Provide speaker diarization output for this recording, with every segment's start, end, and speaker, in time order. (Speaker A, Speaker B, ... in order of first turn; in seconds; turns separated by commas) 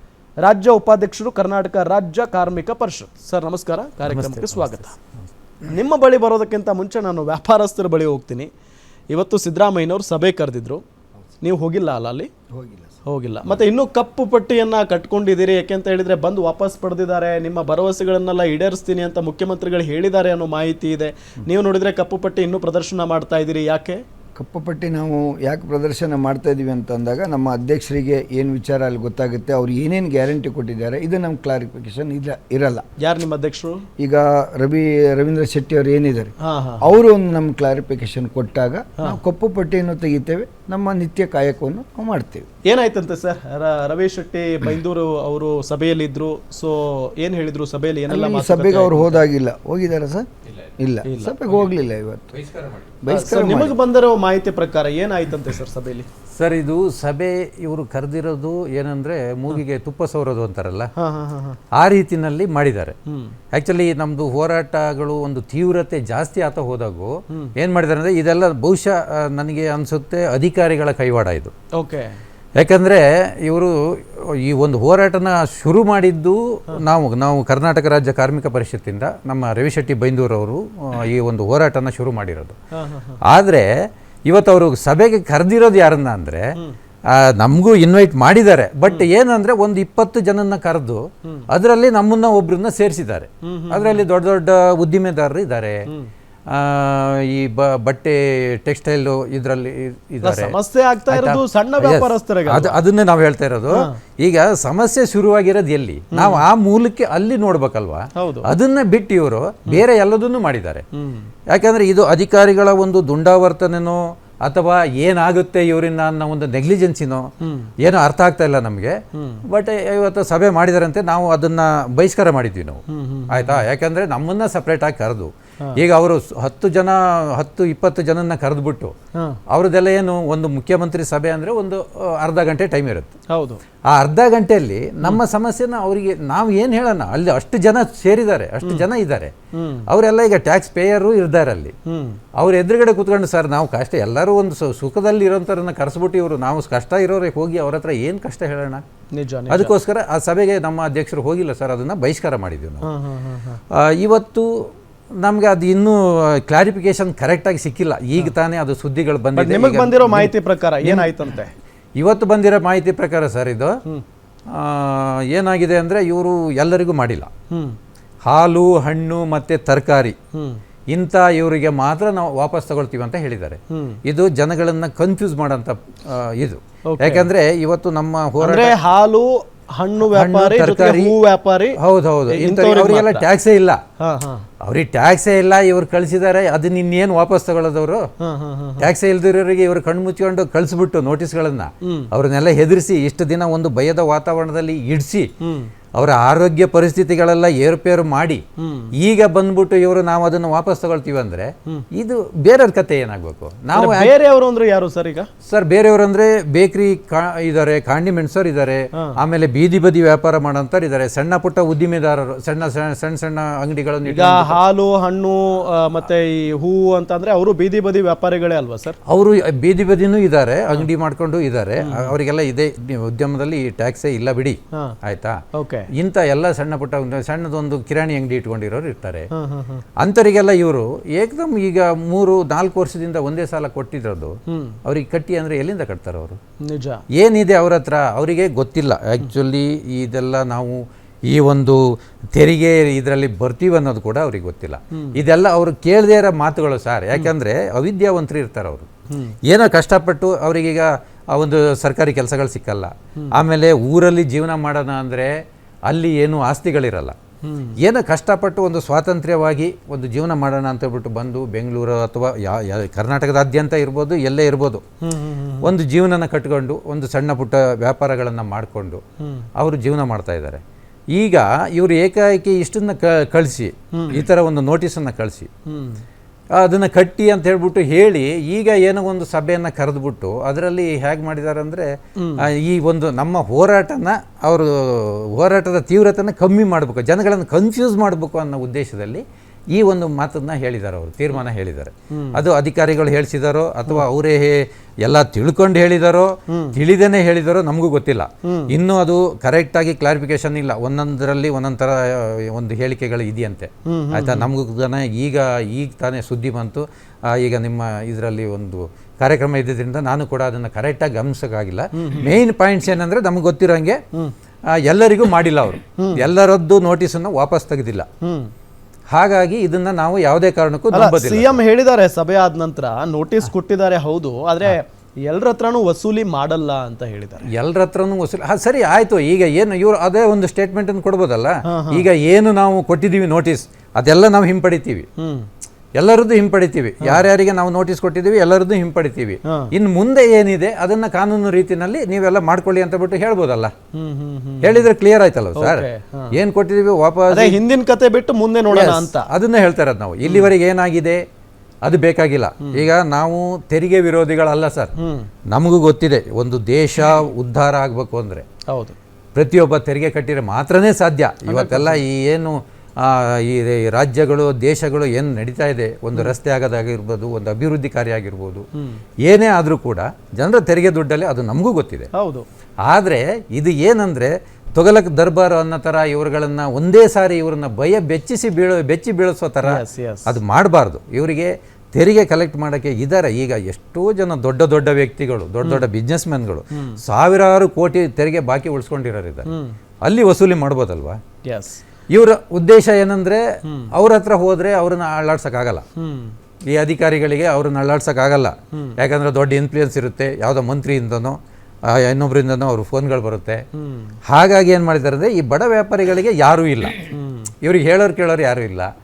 Speaker A: 0.4-5.0, Speaker B: 4.1-4.9, Speaker A: 5.6-8.5, Speaker A: 9.1-10.8, Speaker A: 11.4-12.3, Speaker C: 12.5-13.0, Speaker A: 13.1-24.0, Speaker C: 24.4-32.8, Speaker A: 33.0-33.8, Speaker C: 34.0-42.5, Speaker A: 36.4-36.8, Speaker A: 42.7-49.2, Speaker C: 48.1-50.3, Speaker C: 50.8-52.3, Speaker A: 51.0-51.4, Speaker B: 52.3-53.0, Speaker C: 53.0-53.8, Speaker A: 53.1-56.1, Speaker B: 56.3-60.9, Speaker A: 61.0-61.6, Speaker B: 61.7-62.9, Speaker A: 63.1-63.4, Speaker B: 63.5-71.5, Speaker A: 71.7-72.2, Speaker B: 72.6-82.6, Speaker A: 82.7-83.2, Speaker B: 83.2-83.7, Speaker B: 84.3-86.5, Speaker B: 87.1-95.8, Speaker A: 93.4-94.0, Speaker B: 96.5-100.5, Speaker A: 100.2-102.8, Speaker B: 101.1-110.8, Speaker A: 103.7-104.0, Speaker A: 106.1-106.4, Speaker A: 108.2-108.5, Speaker A: 110.9-111.3, Speaker B: 111.5-117.3, Speaker A: 117.4-117.7, Speaker B: 117.8-118.9, Speaker A: 119.1-119.4, Speaker B: 119.5-128.9, Speaker A: 122.9-123.6, Speaker B: 129.5-133.1, Speaker A: 133.3-133.6, Speaker B: 133.9-139.3, Speaker A: 139.5-139.8, Speaker B: 139.9-141.7, Speaker A: 141.9-142.2, Speaker B: 142.4-148.8, Speaker A: 149.1-149.7, Speaker B: 149.5-152.9, Speaker A: 152.8-153.6, Speaker B: 153.7-161.2, Speaker A: 159.3-161.5, Speaker B: 162.0-163.7, Speaker B: 164.5-167.3, Speaker A: 167.5-167.8, Speaker B: 168.2-170.2, Speaker A: 170.3-170.6, Speaker B: 170.9-178.7, Speaker A: 173.7-174.0, Speaker A: 176.9-177.3, Speaker A: 178.4-181.8, Speaker B: 180.0-181.1, Speaker B: 181.8-183.8, Speaker A: 182.3-183.2, Speaker A: 184.0-184.5, Speaker B: 184.6-188.0, Speaker A: 188.2-188.9, Speaker B: 188.8-195.3, Speaker A: 191.8-192.1, Speaker A: 195.4-195.7, Speaker B: 195.9-198.4, Speaker A: 198.6-198.9, Speaker B: 199.0-204.1, Speaker A: 203.7-205.3, Speaker B: 205.4-214.6, Speaker A: 214.1-219.0, Speaker B: 219.1-225.4, Speaker A: 221.8-222.1, Speaker A: 225.5-225.9, Speaker B: 225.9-229.3, Speaker A: 229.3-229.8, Speaker B: 230.0-236.4, Speaker A: 234.5-234.8, Speaker A: 236.6-237.0, Speaker B: 237.2-241.8, Speaker B: 242.3-248.9, Speaker A: 249.1-249.3, Speaker B: 249.5-255.3, Speaker B: 255.9-257.1, Speaker A: 257.4-257.8, Speaker B: 257.8-264.8, Speaker A: 265.0-265.7, Speaker B: 265.6-269.0, Speaker A: 269.2-269.5, Speaker B: 269.6-270.6, Speaker B: 271.1-275.5, Speaker A: 273.9-274.2, Speaker A: 275.7-276.0, Speaker B: 276.6-314.0, Speaker A: 282.2-282.4, Speaker A: 292.1-292.4, Speaker A: 296.5-296.8, Speaker A: 298.4-298.7, Speaker A: 303.9-304.5, Speaker A: 311.9-312.4, Speaker B: 314.7-318.1, Speaker A: 316.0-316.2, Speaker A: 318.2-318.5, Speaker B: 319.1-321.6, Speaker A: 320.9-327.5, Speaker B: 327.5-335.1, Speaker A: 331.6-332.0, Speaker A: 335.2-335.5, Speaker B: 336.0-343.7, Speaker A: 343.9-344.8, Speaker B: 344.6-345.8, Speaker A: 345.6-346.3, Speaker B: 346.4-347.6, Speaker A: 347.3-349.3, Speaker B: 348.7-351.2, Speaker A: 350.2-350.5, Speaker B: 351.8-354.9, Speaker A: 355.0-355.3, Speaker B: 355.5-358.4, Speaker A: 358.7-358.9, Speaker B: 359.3-368.6, Speaker A: 361.5-362.0, Speaker B: 369.2-372.1, Speaker A: 372.1-372.4, Speaker B: 372.9-389.5, Speaker A: 379.6-380.4, Speaker A: 386.7-387.0, Speaker A: 389.5-389.8, Speaker B: 390.0-391.2, Speaker A: 391.4-391.8, Speaker B: 392.1-395.8, Speaker A: 393.6-393.9, Speaker A: 395.9-396.4, Speaker B: 396.7-403.6, Speaker A: 403.8-404.1, Speaker B: 404.3-407.1, Speaker A: 407.1-407.5, Speaker B: 407.6-408.9